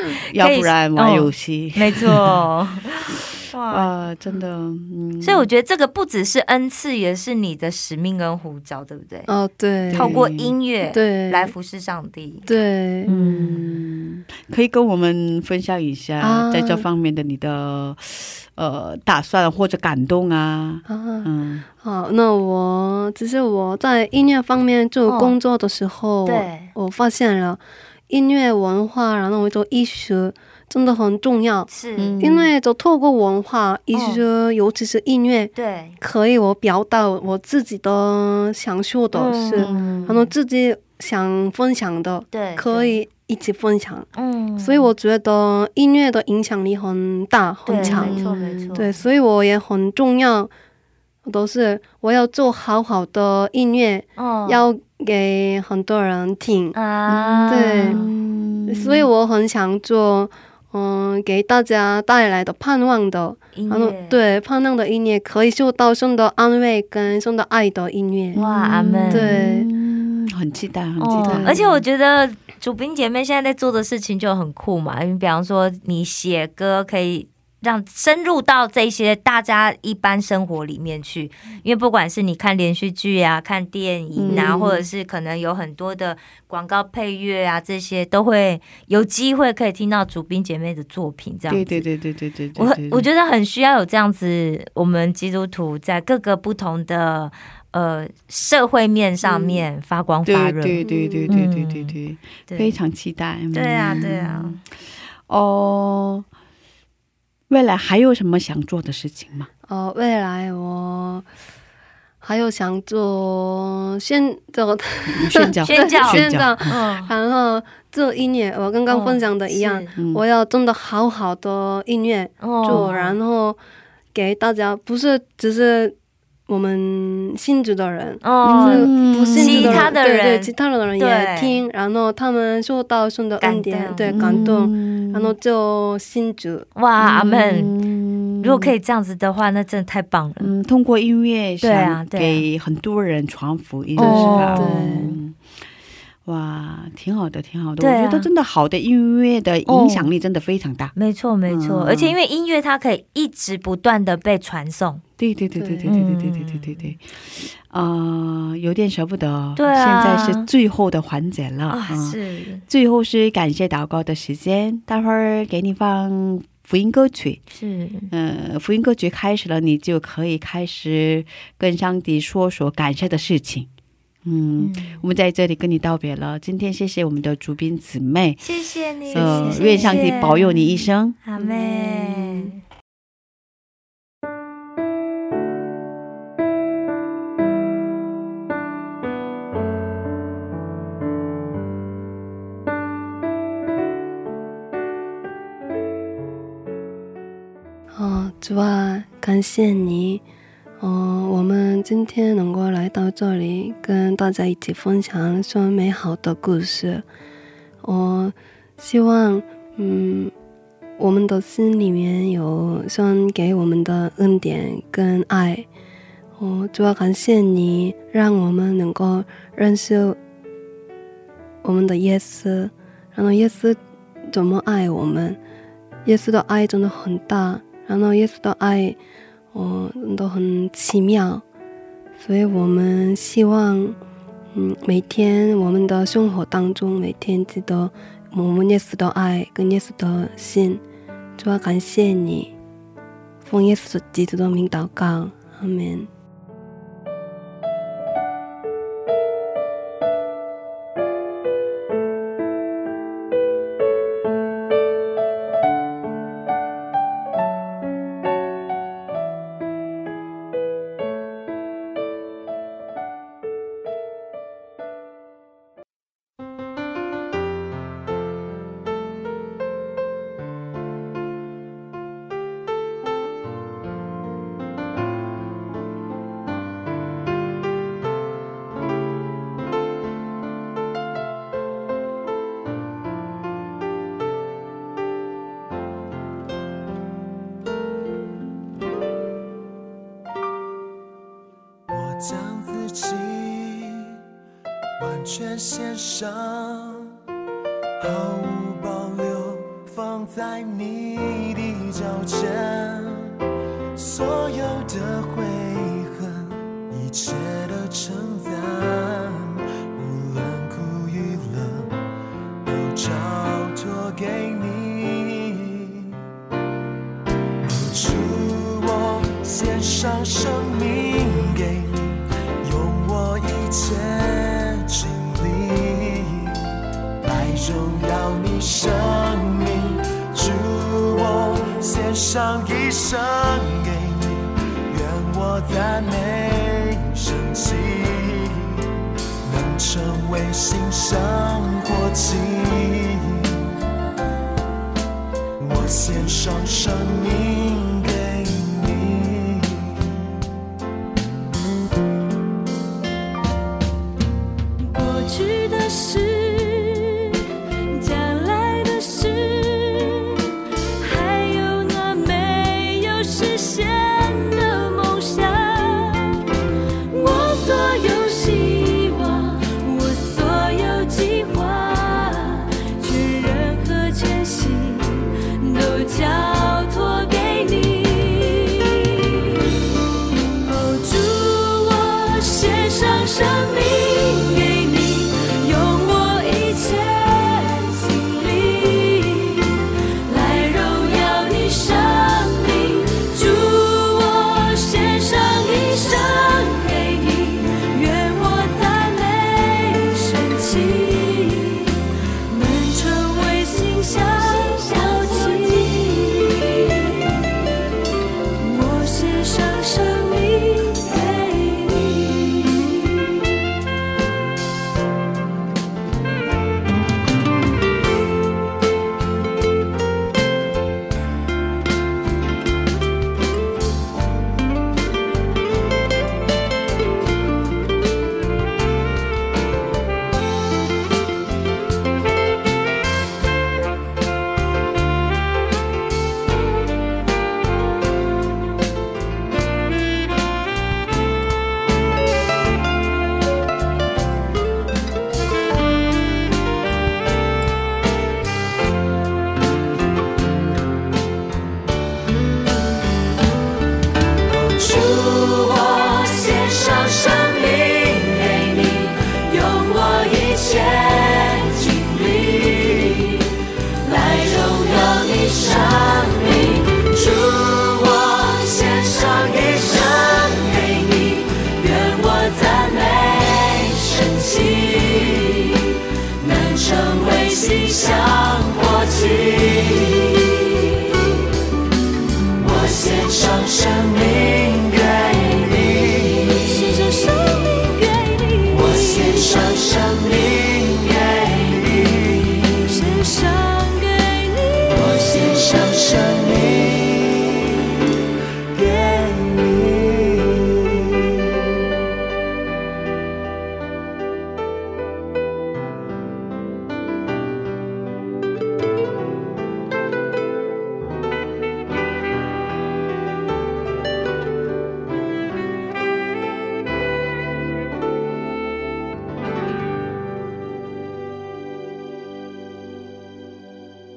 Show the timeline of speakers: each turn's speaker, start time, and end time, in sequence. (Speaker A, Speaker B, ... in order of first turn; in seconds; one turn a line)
Speaker A: 0.3-2.4
Speaker B: 0.4-3.9
Speaker A: 3.7-5.5
Speaker B: 5.2-9.3
Speaker C: 9.3-10.2
Speaker A: 9.9-10.5
Speaker B: 9.9-12.5
Speaker C: 10.9-11.5
Speaker C: 12.5-13.1
Speaker B: 13.1-13.7
Speaker A: 13.1-21.6
Speaker C: 16.2-16.8
Speaker C: 20.9-31.7
Speaker B: 25.1-25.4
Speaker B: 26.2-26.7
Speaker B: 31.7-32.2
Speaker A: 32.0-32.5
Speaker C: 32.2-44.1
Speaker B: 33.9-34.2
Speaker B: 35.5-36.0
Speaker B: 39.1-40.2
Speaker A: 39.6-40.2
Speaker B: 42.3-43.0
Speaker B: 44.1-44.9
Speaker C: 44.6-48.2
Speaker B: 47.6-49.0
Speaker A: 47.8-48.8
Speaker C: 48.7-50.5
Speaker C: 51.2-56.8
Speaker B: 54.2-54.6
Speaker B: 56.7-58.1
Speaker A: 57.1-59.1
Speaker C: 57.5-58.0
Speaker C: 58.7-68.4
Speaker B: 63.5-64.2
Speaker A: 68.3-71.7
Speaker B: 68.3-69.4
Speaker C: 69.1-69.7
Speaker B: 71.0-91.8
Speaker C: 71.2-71.6
Speaker A: 84.1-84.8
Speaker A: 91.5-93.1
Speaker B: 92.5-102.0
Speaker A: 99.3-99.6
Speaker A: 100.2-104.6
Speaker C: 100.8-101.3
Speaker B: 102.5-102.8
Speaker B: 103.5-104.6
Speaker A: 105.3-106.2
Speaker A: 107.5-109.5
Speaker C: 109.7-111.3
Speaker C: 112.2-123.6
Speaker A: 115.1-116.8
Speaker B: 115.6-117.1
Speaker B: 118.9-119.9
Speaker A: 120.0-120.2
Speaker B: 122.4-123.2
Speaker C: 124.1-125.9
Speaker C: 126.5-136.7
Speaker B: 128.2-131.6
Speaker A: 128.4-129.9
Speaker B: 133.4-134.5
Speaker A: 134.1-135.3
Speaker B: 136.8-137.7
Speaker A: 137.0-138.7
Speaker B: 138.4-140.5
Speaker A: 140.4-145.4
Speaker B: 141.6-142.4
Speaker B: 144.0-145.2
Speaker C: 144.0-145.1
Speaker A: 146.2-150.9
Speaker B: 147.8-148.3
Speaker B: 149.7-150.1
Speaker B: 150.9-155.0
Speaker A: 151.4-152.1
Speaker A: 155.2-167.4
Speaker C: 155.6-155.9
Speaker B: 155.8-156.9
Speaker B: 159.6-160.5
Speaker B: 161.7-162.6
Speaker B: 167.5-168.1
Speaker A: 168.1-173.7
Speaker A: 174.2-178.4
Speaker B: 174.6-175.0
Speaker B: 178.4-182.6
Speaker A: 179.0-182.5
Speaker C: 197.9-200.2
Speaker C: 200.8-207.0
Speaker C: 207.8-210.3
Speaker C: 211.0-215.7
Speaker C: 216.4-220.2
Speaker C: 221.6-225.4
Speaker C: 226.0-229.0
Speaker C: 229.5-231.4
Speaker C: 232.2-234.0
Speaker C: 234.5-240.8
Speaker C: 241.4-242.5
Speaker C: 243.4-246.1
Speaker D: 291.9-294.1
Speaker D: 295.0-297.1
Speaker D: 298.0-303.4
Speaker D: 303.9-311.9
Speaker D: 312.6-316.1
Speaker D: 317.6-338.9
Speaker D: 339.4-343.6
Speaker D: 345.6-350.1
Speaker E: 354.8-366.5
Speaker E: 367.1-379.7
Speaker E: 380.4-407.5
Speaker E: 408.6-413.0
Speaker D: 454.6-455.9
Speaker E: 454.9-463.5
Speaker D: 457.7-458.3
Speaker E: 464.0-475.8
Speaker D: 465.9-466.4
Speaker D: 467.2-471.3
Speaker D: 474.5-475.3
Speaker E: 476.4-478.9
Speaker D: 476.5-477.4
Speaker D: 478.1-480.1
Speaker D: 482.6-486.7
Speaker E: 486.4-489.7
Speaker D: 488.6-492.9
Speaker E: 492.7-495.6
Speaker D: 494.9-497.8
Speaker D: 498.7-501.7